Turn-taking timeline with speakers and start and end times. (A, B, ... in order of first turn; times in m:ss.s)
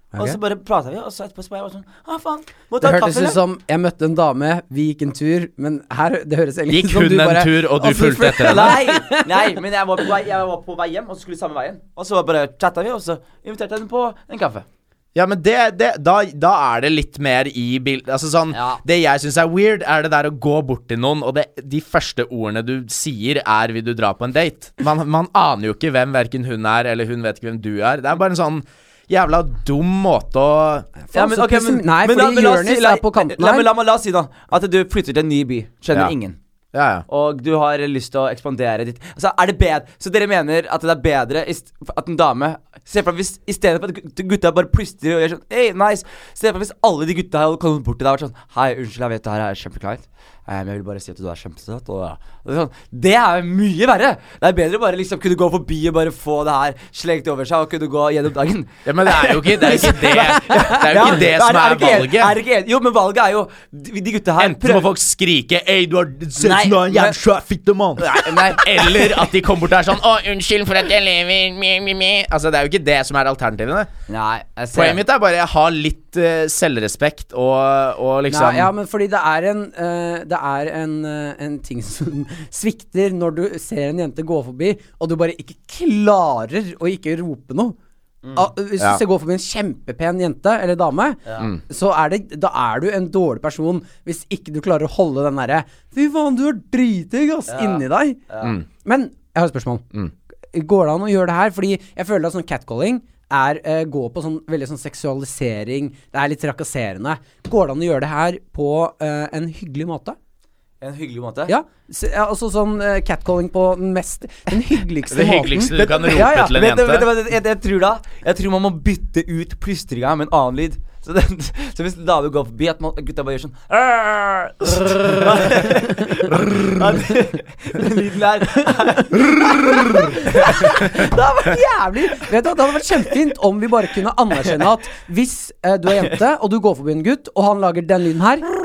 0:00.2-0:03.4 A
0:02.8-0:09.5 B
0:06.7-0:08.8 C
0:08.2-0:14.6 A
0:15.2-0:30.9 C
0:18.5-0:18.8 A
0:31.0-0:33.7 B
0:31.1-0:36.4 A
0:36.7-0:37.0 C
0:37.1-1:04.9 A
0:58.9-1:02.4 C
0:59.9-1:00.9 B
1:04.4-1:13.9 C
1:06.4-1:07.2 A
1:08.0-1:09.3 A
1:14.1-1:15.0 A
1:14.7-1:18.7 C
1:18.3-1:27.8 B
1:28.2-1:28.5 A
1:28.4-1:38.2 B
1:37.5-1:38.6 A
1:38.8-1:39.9 B
1:40.5-1:50.2 B
1:50.8-1:51.5 A
1:51.5-1:56.6 B
1:55.1-1:57.1 C
1:55.7-2:11.2 A
2:05.7-2:06.3 B
2:08.6-2:18.5 B